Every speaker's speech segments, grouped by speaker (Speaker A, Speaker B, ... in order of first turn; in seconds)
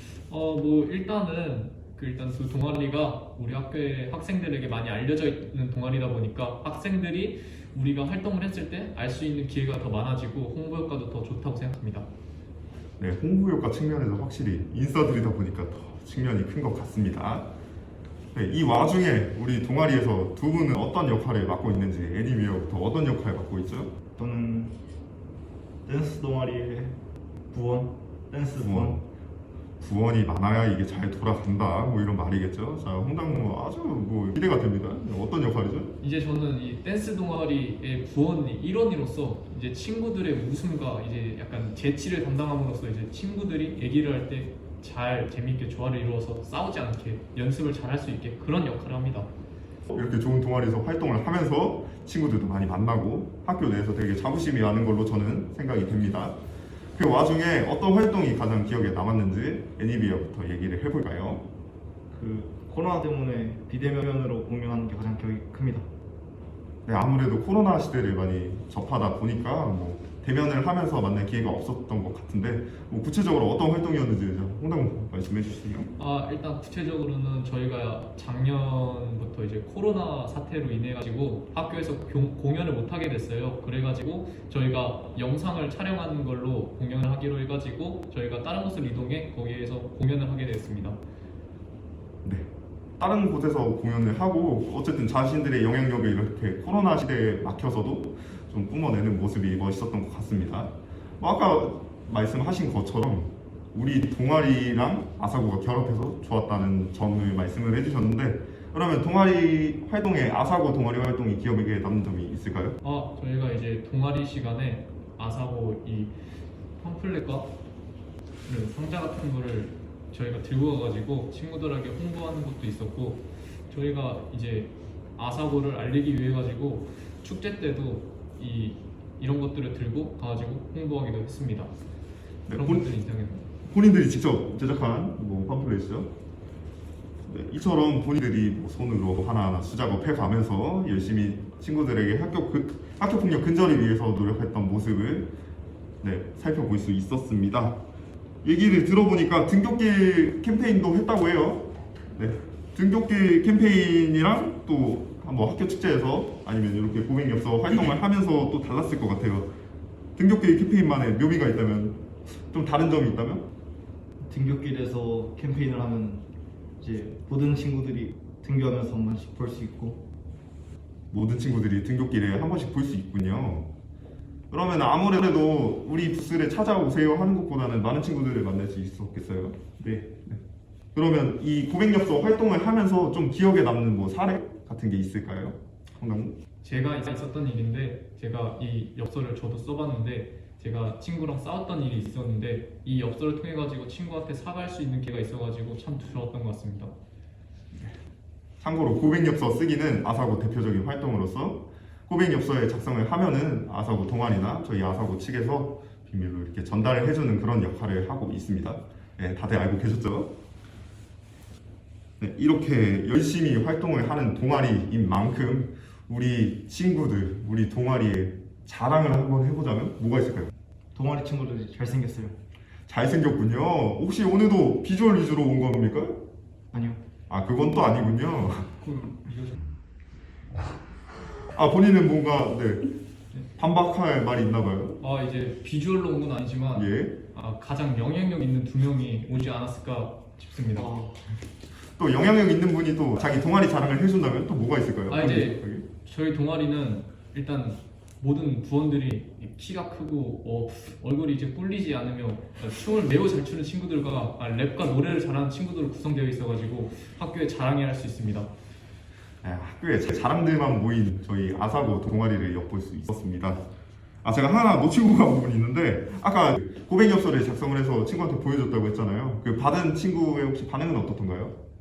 Speaker A: 0.3-12.1, 36.0-49.3, 76.0-91.0, 112.8-116.1, 116.8-117.5, 118.4-131.7, 132.5-133.5, 186.6-196.9, 228.9-229.5, 235.0-240.9, 245.1-258.5
Speaker B: 13.0-17.5, 18.3-23.9, 28.6-29.0, 29.8-35.9, 49.9-56.4, 56.9-61.5, 66.8-75.9, 92.2-112.8, 132.5-132.9, 133.6-136.1, 137.3-145.3, 146.0-147.8, 148.4-159.5, 160.2-163.5, 171.1-173.7, 174.5-180.4, 180.9-186.4, 198.6-210.3, 212.2-220.5, 222.9-226.2, 227.3-229.0, 231.5-232.9, 233.5-235.0, 236.7-237.2, 240.8-241.2, 242.0-245.8, 259.4-263.6, 264.2-271.6
Speaker C: 24.2-24.8, 25.8-27.0, 27.5-29.0, 62.1-65.9, 164.2-166.2, 166.8-170.0, 220.9-222.4, 226.7-227.0